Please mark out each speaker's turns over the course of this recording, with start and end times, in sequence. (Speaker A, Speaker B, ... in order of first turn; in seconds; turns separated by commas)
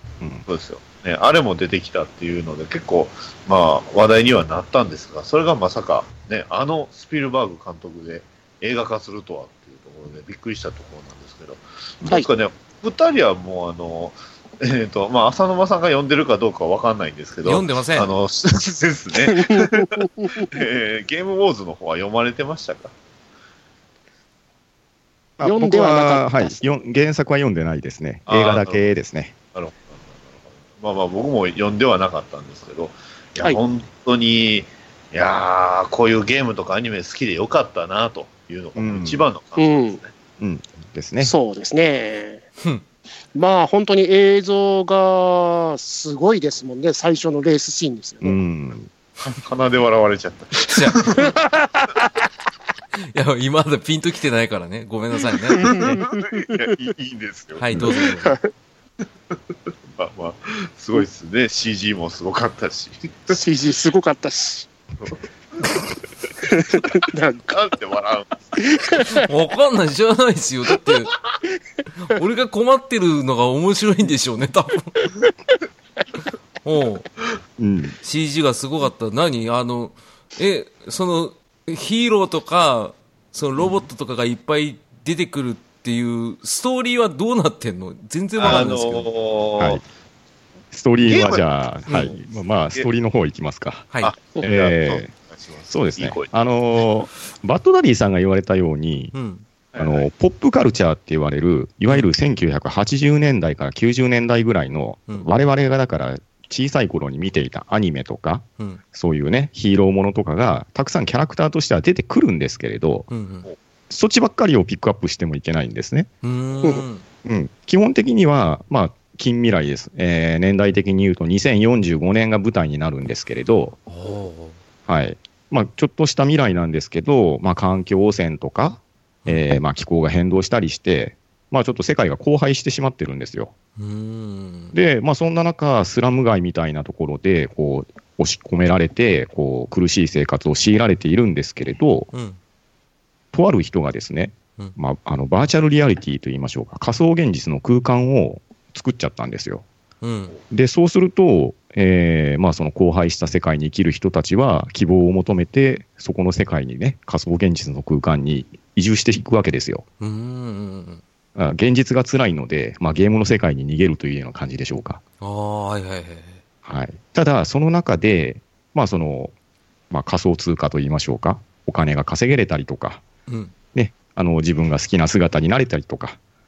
Speaker A: 0.5-22.9, Speaker B: 17.4-18.1, Speaker C: 19.2-20.5, Speaker D: 25.4-29.3, Speaker C: 25.4-26.6, Speaker A: 28.3-28.8, Speaker A: 29.5-40.1, Speaker D: 38.8-39.3, Speaker C: 39.6-40.0, Speaker D: 40.4-41.3, Speaker C: 41.2-42.4, Speaker C: 43.3-48.3, Speaker D: 48.2-48.9, Speaker A: 49.2-51.3, Speaker B: 50.7-51.2, Speaker C: 51.2-52.1, Speaker B: 53.1-55.9, Speaker C: 55.5-56.5, Speaker A: 55.8-57.6, Speaker B: 57.6-58.3, Speaker C: 57.9-58.5, Speaker A: 59.9-63.4, Speaker C: 63.3-64.7, Speaker A: 65.0-65.8, Speaker C: 66.4-67.5, Speaker A: 67.5-68.7, Speaker C: 68.6-69.2, Speaker B: 69.2-71.2, Speaker B: 72.0-75.1, Speaker B: 76.6-77.1, Speaker D: 77.6-78.0, Speaker B: 78.0-89.1, Speaker A: 88.4-89.8, Speaker D: 88.5-88.7, Speaker D: 89.6-89.8, Speaker D: 90.7-95.1, Speaker A: 91.0-92.2, Speaker A: 94.0-96.3, Speaker D: 95.7-99.1, Speaker B: 99.1-99.4, Speaker A: 99.7-100.0, Speaker D: 99.8-113.1, Speaker B: 113.1-113.5, Speaker D: 113.9-116.1, Speaker B: 116.2-117.0, Speaker D: 117.2-123.8, Speaker B: 123.9-124.6, Speaker D: 124.9-133.5, Speaker B: 133.8-134.7, Speaker D: 134.7-142.1, Speaker B: 142.1-142.4, Speaker D: 143.3-149.6, Speaker B: 150.0-150.3, Speaker D: 150.5-159.8, Speaker B: 160.0-161.0, Speaker D: 161.3-165.0, Speaker B: 165.2-166.4, Speaker D: 166.6-169.3, Speaker D: 169.9-173.0, Speaker B: 173.3-173.5, Speaker D: 173.7-176.2